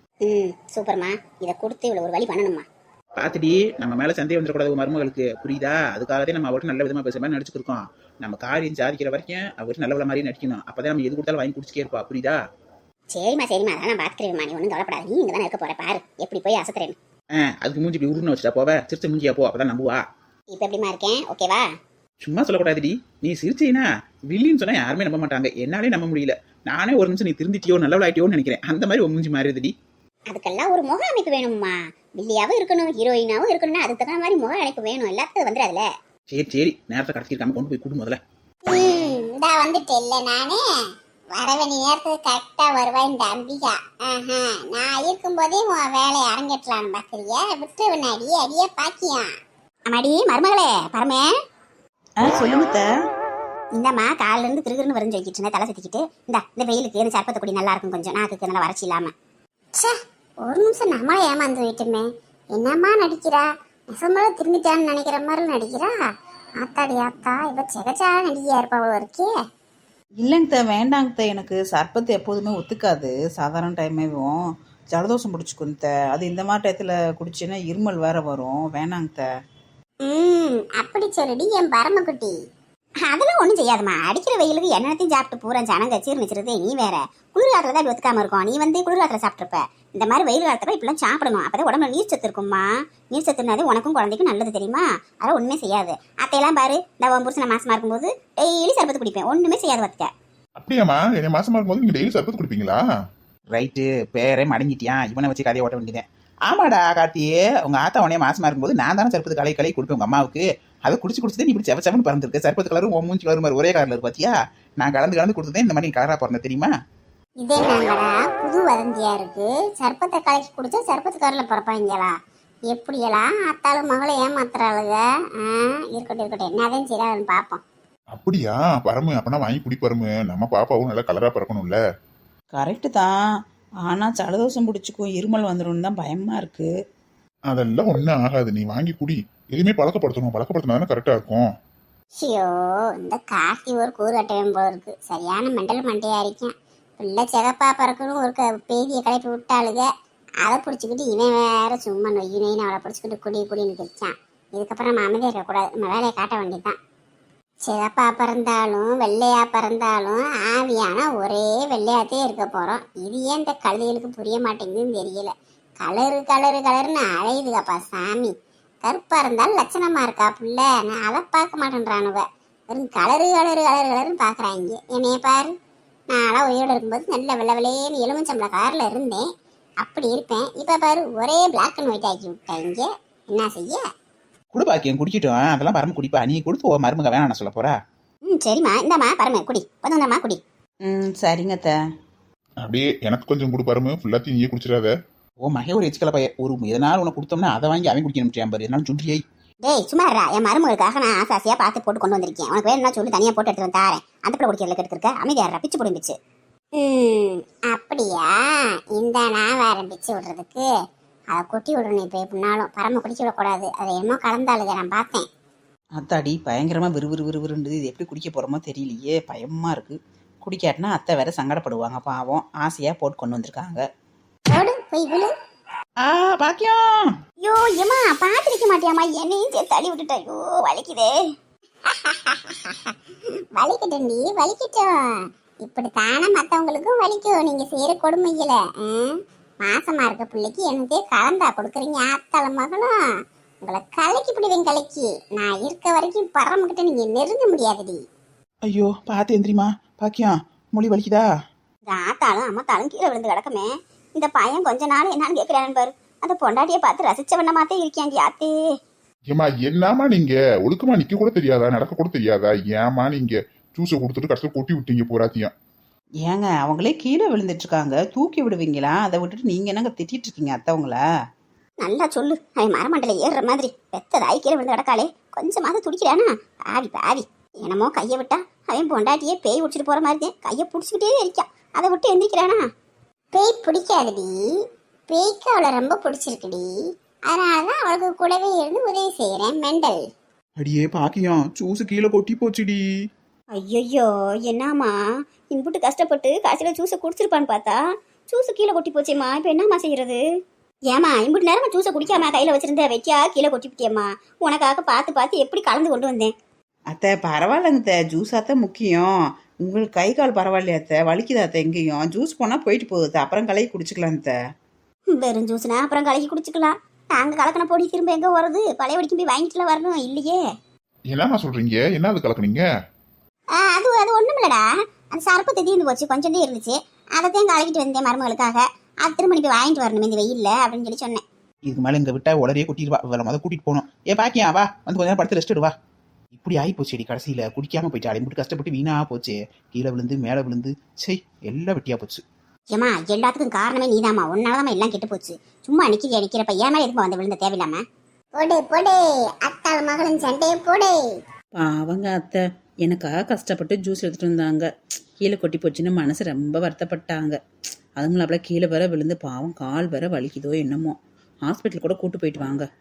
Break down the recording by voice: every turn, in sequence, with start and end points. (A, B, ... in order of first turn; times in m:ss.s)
0:00.2-0:02.6 A
0:03.2-0:12.4 B
0:13.1-0:17.0 A
0:17.4-0:20.0 B
0:20.5-0:21.6 A
0:22.2-0:29.7 B
0:30.3-0:35.9 A
0:36.3-0:38.2 B
0:38.7-0:40.6 A
0:41.3-0:49.3 A
0:49.9-0:51.3 A
0:52.2-0:52.9 C
0:53.8-0:59.1 A
0:59.8-1:06.0 A
1:06.6-1:09.3 A
1:10.2-1:14.4 C
1:14.9-1:19.2 C
1:20.0-1:22.3 A
1:23.0-1:40.1 A
1:40.6-1:42.8 D
1:43.6-1:56.7 B
1:57.4-2:02.2 A
2:02.7-2:07.6 A
2:08.1-2:11.8 D
2:12.6-2:13.1 C
2:13.9-2:16.7 C
2:17.5-2:21.5 D
2:22.2-2:29.9 A
2:30.4-2:36.8 A
2:37.6-2:55.5 A
2:56.1-2:59.2 A
2:59.8-3:03.8 A
3:04.5-3:07.8 B
3:08.3-3:10.4 A
3:10.8-3:11.8 C
3:12.6-3:14.9 D
3:15.4-3:19.2 B
3:19.6-3:26.2 A
3:26.8-3:30.7 A
3:31.3-3:35.3 A
3:36.0-3:43.8 C
3:44.5-3:45.3 A
3:46.0-3:46.9 B
3:47.4-3:51.1 A
3:51.9-3:52.9 A
3:53.6-4:03.0 A
4:03.6-4:08.0 A
4:08.7-4:11.3 B
4:11.9-4:18.5 A
4:19.3-4:25.5 D
4:26.2-4:31.0 C
4:31.8-4:42.6 A
4:43.3-4:44.4 A
4:45.1-4:46.7 A
4:47.3-4:50.0 A
4:50.6-4:52.8 D
4:53.6-4:55.0 A
4:55.5-5:00.2 A
5:00.9-5:06.3 A
5:06.9-5:09.1 C
5:09.6-5:14.3 C
5:15.1-5:20.4 A
5:21.1-5:22.6 D
5:23.6-5:31.2 A
5:31.7-5:35.7 B
5:36.4-5:42.2 B
5:42.7-5:47.8 A
5:48.4-5:51.0 A
5:51.6-5:54.7 C
5:55.2-5:57.4 C
5:58.0-6:02.6 C